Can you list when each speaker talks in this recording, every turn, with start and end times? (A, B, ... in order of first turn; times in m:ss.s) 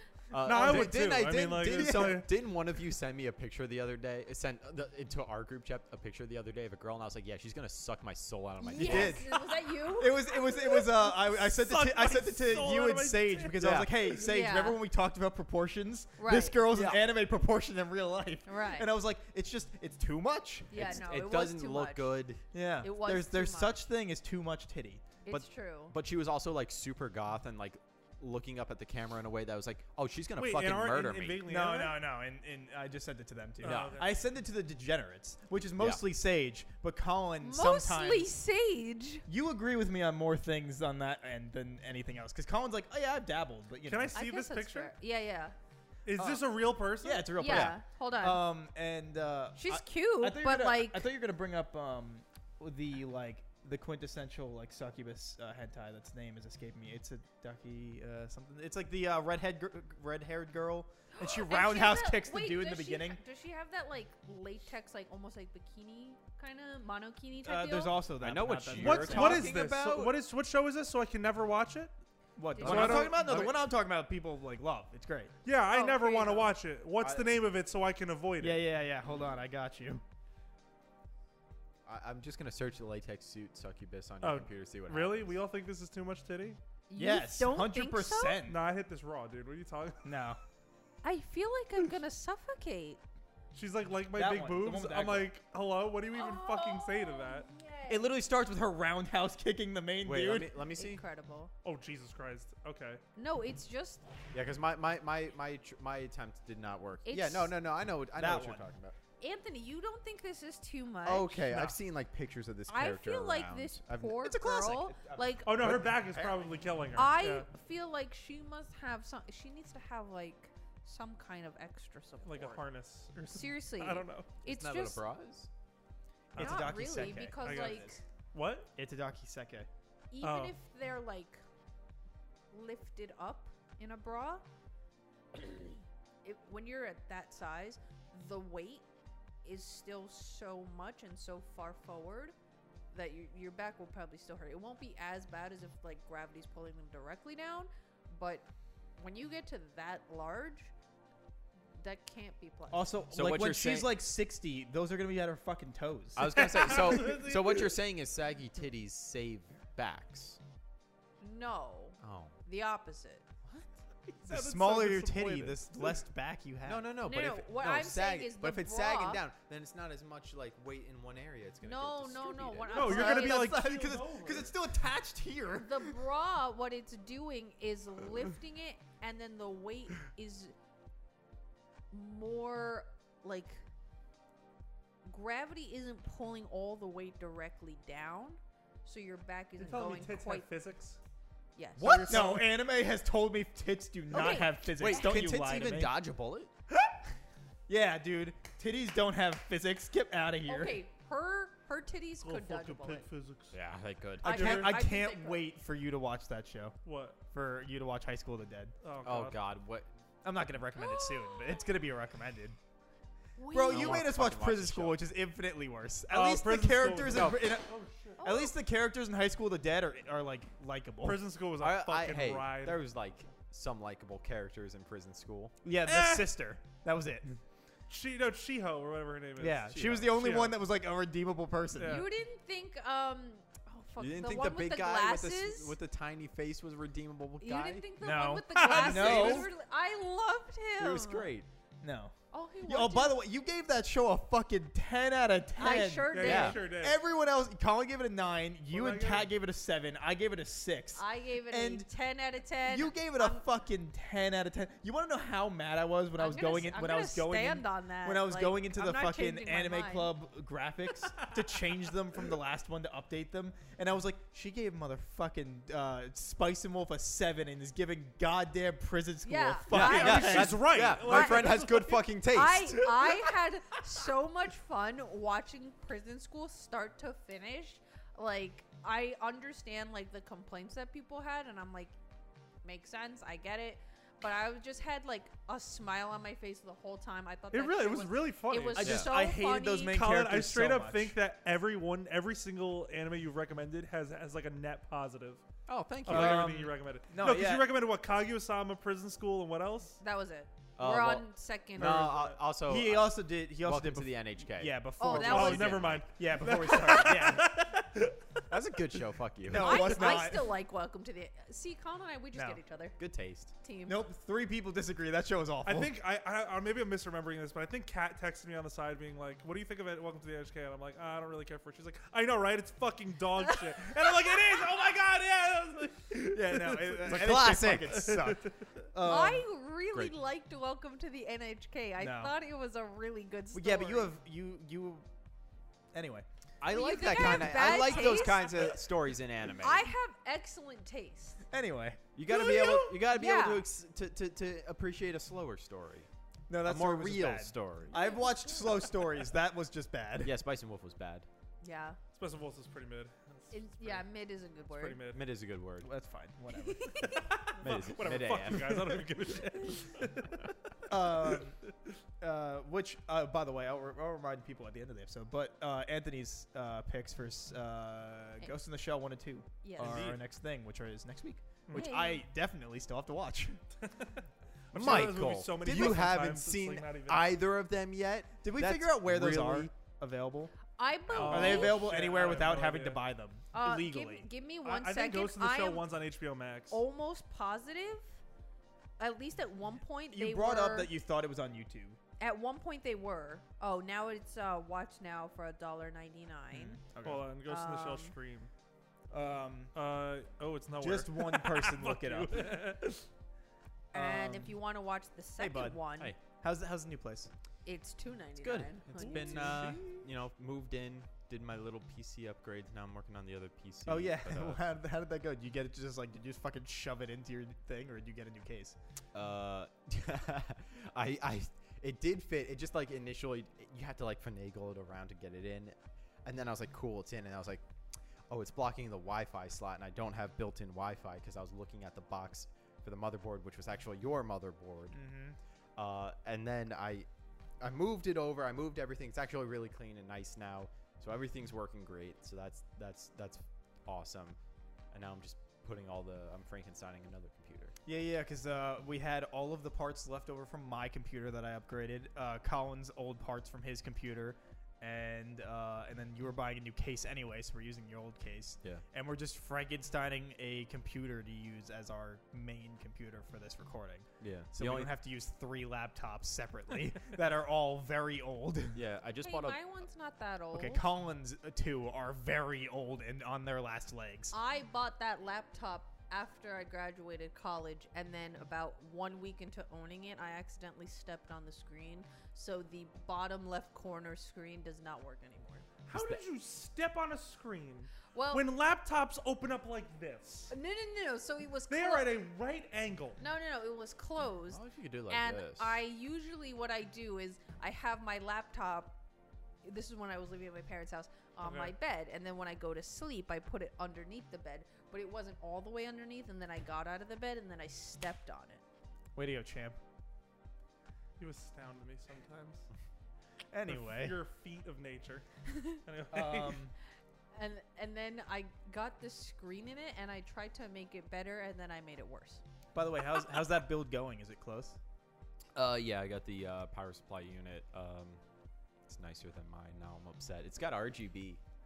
0:00.3-0:09.3 A
0:00.4-0:02.3 B
0:00.6-0:01.1 C
0:01.6-0:02.3 C
0:08.6-0:10.9 D
0:08.8-0:21.0 C
0:11.1-0:13.7 B
0:13.6-0:14.0 A
0:14.1-0:14.8 D
0:16.2-0:16.6 D
0:16.7-0:17.0 A
0:18.5-0:18.9 D
0:20.7-0:22.2 D
0:20.7-0:22.4 A
0:22.5-0:25.1 C
0:22.8-0:23.8 D
0:25.2-0:26.0 D
0:25.3-0:31.4 A
0:30.4-0:32.0 B
0:31.5-0:38.3 C
0:33.6-0:34.1 B
0:33.6-0:34.0 A
0:37.4-0:39.2 D
0:39.3-0:44.2 C
0:43.9-0:44.9 B
0:44.1-0:45.6 D
0:46.1-0:47.3 B
0:46.2-1:03.2 C
0:47.4-0:48.5 D
0:47.4-0:47.8 A
0:49.6-0:51.1 D
1:01.1-1:08.0 D
1:07.4-1:09.6 C
1:08.2-1:10.2 A
1:08.8-1:11.9 B
1:12.4-1:15.3 C
1:12.6-1:13.1 D
1:12.6-1:13.5 B
1:12.7-1:13.5 A
1:15.4-1:18.6 B
1:15.7-1:16.6 D
1:17.0-1:17.3 A
1:18.4-1:20.0 C
1:21.9-1:25.4 A
1:24.2-1:26.6 B
1:26.9-1:28.4 D
1:27.0-1:28.6 C
1:28.4-1:30.1 B
1:30.0-1:30.4 C
1:31.0-1:33.0 D
1:33.5-1:37.5 B
1:34.1-1:35.3 C
1:36.1-1:38.1 D
1:37.9-1:40.5 C
1:40.0-1:41.0 A
1:40.8-1:41.5 D
1:41.6-1:43.0 B
1:43.2-1:44.0 D
1:44.3-1:49.0 A
1:47.0-1:47.5 D
1:48.2-1:48.6 C
1:49.2-1:51.5 D
1:51.0-1:54.2 A
1:52.7-1:55.8 D
1:54.2-1:55.8 C
1:55.4-1:57.5 B
1:55.6-1:56.5 A
1:57.0-2:02.6 D
2:02.2-2:04.3 B
2:03.3-2:05.0 D
2:04.4-2:05.5 A
2:06.3-2:08.0 C
2:06.3-2:08.7 B
2:06.4-2:08.0 D
2:08.8-2:09.7 C
2:10.1-2:11.4 D
2:10.2-2:10.6 B
2:12.5-2:14.4 D
2:15.4-2:15.7 D
2:16.2-2:18.8 D
2:19.4-2:22.4 D
2:22.9-2:30.7 D
2:31.8-2:33.0 D
2:32.7-2:37.0 C
2:33.1-2:33.9 A
2:36.2-2:40.4 A
2:36.3-2:37.7 B
2:41.2-2:43.3 D
2:42.0-2:42.4 A
2:44.1-2:46.0 B
2:44.2-2:46.9 C
2:46.6-2:53.0 A
2:47.0-2:49.2 D
2:51.6-2:53.6 D
2:52.7-2:54.5 B
2:52.8-2:56.0 C
2:55.6-3:00.6 D
3:01.9-3:03.6 D
3:05.0-3:10.5 D
3:09.6-3:11.0 B
3:11.6-3:12.1 D
3:11.8-3:12.4 A
3:11.8-3:12.5 B
3:12.1-3:15.9 C
3:14.1-3:15.2 D
3:14.7-3:16.5 A
3:17.7-3:20.8 C
3:20.5-3:23.1 D
3:22.2-3:23.6 B
3:23.5-3:24.7 A
3:24.2-3:25.5 D
3:24.2-3:26.8 C
3:24.2-3:24.8 B
3:26.8-3:27.2 B
3:27.3-3:28.7 C
3:28.8-3:29.4 B
3:29.0-3:29.9 A
3:30.2-3:32.6 C
3:30.8-3:31.7 D
3:33.4-3:34.1 D
3:33.5-3:41.2 C
3:33.7-3:35.0 A
3:36.1-3:38.2 B
3:37.1-3:37.5 A
3:38.2-3:38.6 D
3:41.0-3:42.8 B
3:41.6-3:45.6 A
3:45.6-3:47.4 C
3:45.9-3:46.3 B
3:47.9-3:50.6 B
3:49.4-3:52.1 C
3:49.7-3:50.1 A
3:51.8-3:52.1 B
3:51.8-3:55.8 D
3:54.0-3:57.9 A
3:57.4-4:01.3 D
3:58.0-3:59.5 C
3:58.5-3:59.5 B
4:00.8-4:01.5 A
4:01.8-4:11.9 C
4:02.3-4:03.2 D
4:05.6-4:06.6 D
4:06.1-4:07.0 B
4:06.2-4:06.6 A
4:08.7-4:09.3 B
4:11.0-4:13.4 D
4:12.7-4:30.7 C
4:16.2-4:20.1 D
4:29.2-4:31.8 D
4:29.7-4:32.9 A
4:29.7-4:32.1 B
4:32.3-4:42.0 D
4:42.6-4:50.0 D
4:47.5-4:49.0 B
4:48.8-4:51.2 C
4:48.8-4:49.1 A
4:49.8-4:55.4 B
4:55.7-4:56.6 A
4:56.1-5:00.0 B
4:56.1-4:57.8 C
5:00.0-5:02.2 D
5:00.8-5:06.0 A
5:02.6-5:07.6 C
5:05.0-5:06.0 D
5:05.2-5:08.4 B
5:08.5-5:10.2 A
5:09.4-5:10.6 C
5:09.6-5:13.0 D
5:12.3-5:12.6 C
5:13.0-5:13.5 A
5:13.6-5:14.0 D
5:13.9-5:15.9 C
5:15.6-5:28.7 B
5:26.2-5:29.5 C
5:27.0-5:28.2 A
5:29.0-5:34.1 D
5:32.0-5:32.4 C
5:33.5-5:35.0 C
5:35.9-5:36.3 C
5:36.6-5:39.9 A
5:36.7-5:38.7 D
5:39.6-5:41.4 D
5:41.5-5:42.0 C
5:42.2-5:46.1 A
5:42.3-5:43.7 D
5:46.5-5:50.4 C
5:46.6-5:48.0 A
5:47.9-5:48.9 D
5:50.2-5:51.3 A
5:51.6-5:52.0 D
5:52.1-5:54.1 B
5:53.5-5:55.0 D
5:54.7-5:55.2 B
5:55.1-5:55.9 A
5:55.8-5:57.1 C
5:56.5-5:57.3 D
5:57.1-6:00.5 B
5:57.6-5:59.1 A
6:00.9-6:01.6 C
6:01.1-6:01.4 B
6:02.2-6:13.6 C
6:09.6-6:10.1 D
6:09.8-6:10.2 A
6:11.7-6:11.9 B
6:11.7-6:12.2 D
6:13.8-6:17.4 B
6:14.7-6:19.7 A
6:14.8-6:15.1 C
6:18.4-6:20.6 C
6:20.8-6:21.8 D
6:21.1-6:23.0 B
6:21.1-6:24.3 C
6:23.5-6:25.8 D
6:24.6-6:26.8 B
6:26.7-6:28.1 D
6:29.0-6:30.9 D
6:30.1-6:32.0 C
6:32.2-6:36.8 D
6:36.5-6:37.3 C
6:37.0-6:38.5 B
6:37.5-6:38.1 D
6:39.1-6:39.7 C
6:39.8-6:43.1 B
6:40.8-6:42.6 C
6:43.9-6:44.6 C
6:43.9-6:46.2 D
6:45.4-6:47.3 C
6:47.6-6:49.6 D
6:48.4-6:54.6 A
6:49.0-6:50.1 C
6:49.2-6:49.8 B
6:53.9-6:58.8 C
6:59.1-7:07.6 A
7:08.3-7:15.0 A
7:14.9-7:15.4 C
7:15.8-7:17.1 A
7:17.6-7:24.4 A
7:24.9-7:27.7 A
7:27.9-7:48.8 C
7:44.2-7:44.9 A
7:48.7-7:49.6 A
7:49.2-7:50.8 D
7:50.5-7:54.4 C
7:54.3-8:05.6 D
8:05.9-8:10.5 B
8:05.9-8:06.2 A
8:08.1-8:08.4 D
8:10.5-8:12.1 D
8:11.7-8:13.2 B
8:13.2-8:19.0 D
8:14.5-8:15.8 A
8:19.6-8:28.6 D
8:21.4-8:21.7 B
8:29.2-8:29.8 C
8:31.2-8:32.7 B
8:33.5-8:34.2 C
8:33.7-8:36.6 B
8:36.1-8:36.7 C
8:37.3-8:42.4 D
8:42.7-8:44.8 C
8:45.6-8:48.2 A
8:48.9-8:51.4 A